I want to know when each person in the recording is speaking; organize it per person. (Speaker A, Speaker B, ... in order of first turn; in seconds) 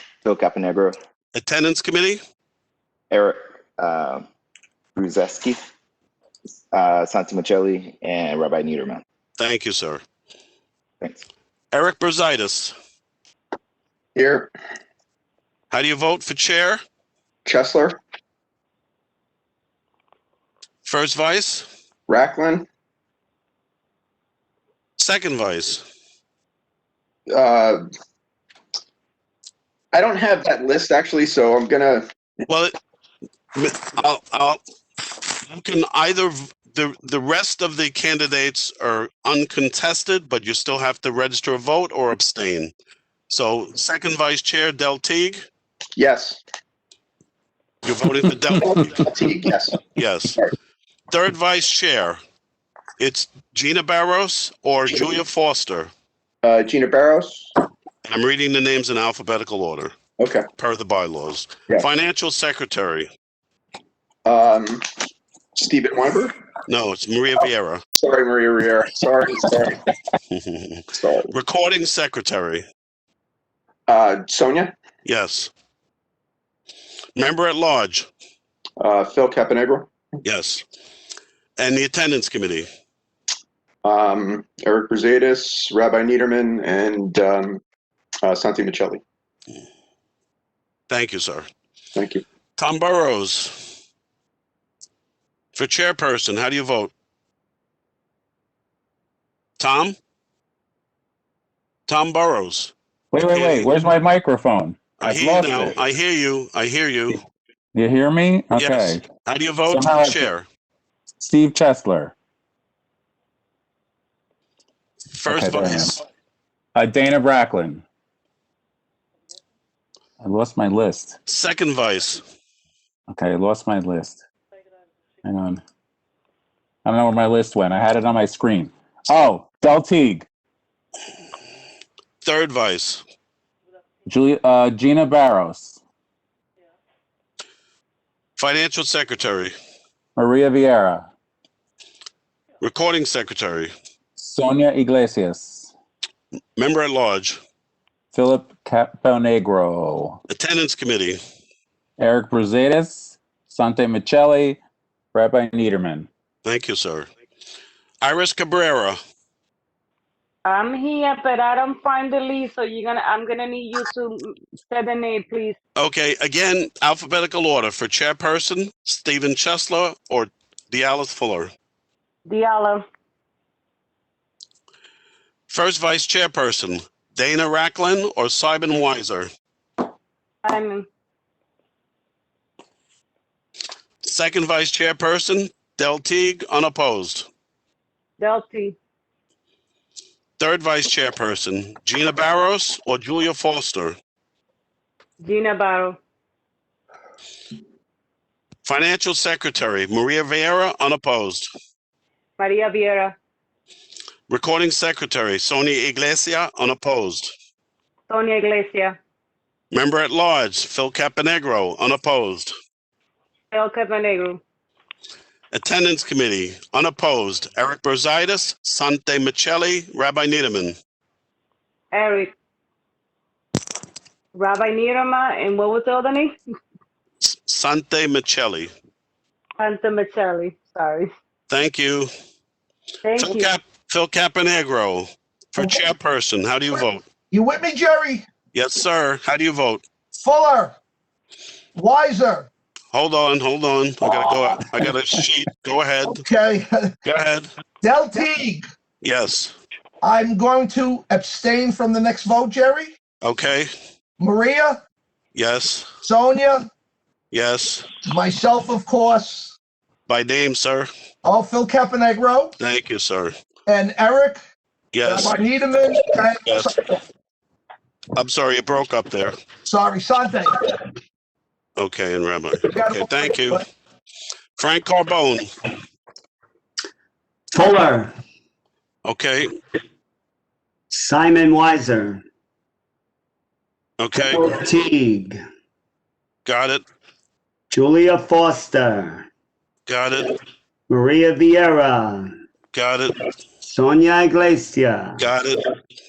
Speaker A: 0.2-1.0, 3.1-4.3, 5.0-5.7, 6.7-9.0
Speaker B: 1.3-2.2, 9.4-10.0, 11.7-12.7, 15.7-16.8, 20.8-21.7, 25.0-25.8, 32.5-32.7, 33.5-34.6, 35.5-42.7, 43.3-45.4, 47.8-49.0, 49.9-50.4, 51.1-52.2, 53.0-55.9, 58.0-59.9, 60.6-63.1, 66.7-67.8, 70.3-72.6, 75.0-75.5, 77.2-78.1, 80.2-80.6, 81.6-82.7, 90.9-91.5, 92.6-93.8, 95.5-96.9, 99.6-100.0, 101.9-102.7, 103.3-103.7, 105.0-107.2, 108.5-110.5, 115.1-116.0, 121.2-122.2, 132.2-133.0, 138.4-139.5, 142.6-143.7, 146.6-147.4, 150.3-151.2, 156.4-157.1, 158.0-159.0, 165.8-171.5, 175.5-179.3, 184.0-187.3, 190.4-193.9, 198.6-201.5, 204.3-207.3, 209.7-212.5, 215.5-220.8, 227.2-228.7, 231.5-232.1, 233.2-237.0, 238.5-239.8, 242.9-246.2, 247.0-247.5, 249.0-249.5, 253.2-253.7, 255.3-255.9, 257.3-257.9, 260.1-260.9, 262.6-263.3, 264.9-265.4, 266.4-266.7, 268.1-269.4, 271.8-273.6, 274.6-275.5, 279.0-279.5, 284.0-284.5, 286.4-286.8, 289.9-290.4, 292.7-293.2, 295.2-295.6
Speaker C: 14.2-14.5, 17.4-18.0, 22.1-22.6, 27.3-27.8, 29.9-32.1, 46.0-46.4, 48.6-49.8, 56.4-57.5, 60.2-60.5, 64.2-64.8, 65.5-66.3, 68.0-69.8, 70.9-71.3, 73.9-74.7, 78.8-79.9, 83.8-87.6, 88.2-89.0, 92.0-92.2
Speaker D: 103.1-105.8, 107.7-109.0, 109.7-110.3, 111.2-112.1, 115.2-116.0, 116.7-117.8, 120.2-121.2, 123.1-124.2, 125.2-125.6, 126.8-130.2, 134.1-135.8, 140.2-141.1, 144.2-145.7, 148.1-150.2, 152.0-154.6, 155.1-156.1
Speaker E: 160.4-165.6, 172.2-172.8, 180.4-180.9, 188.2-188.8, 195.2-196.0, 202.4-203.2, 208.1-209.0, 213.5-214.4, 221.9-222.3, 224.3-226.3, 229.6-231.1, 233.0-233.5
Speaker F: 235.6-235.9, 237.3-238.2, 240.1-240.8, 241.7-242.5, 246.0-246.9, 247.8-248.6, 250.0-252.9, 254.2-254.8, 256.0-256.7, 258.1-259.6, 261.2-262.5, 263.7-264.4, 265.0-267.0, 269.6-270.7, 272.6-273.6
Speaker G: 277.5-278.1, 280.9-282.2, 284.2-285.4, 287.7-289.2, 290.9-292.4, 293.6-295.2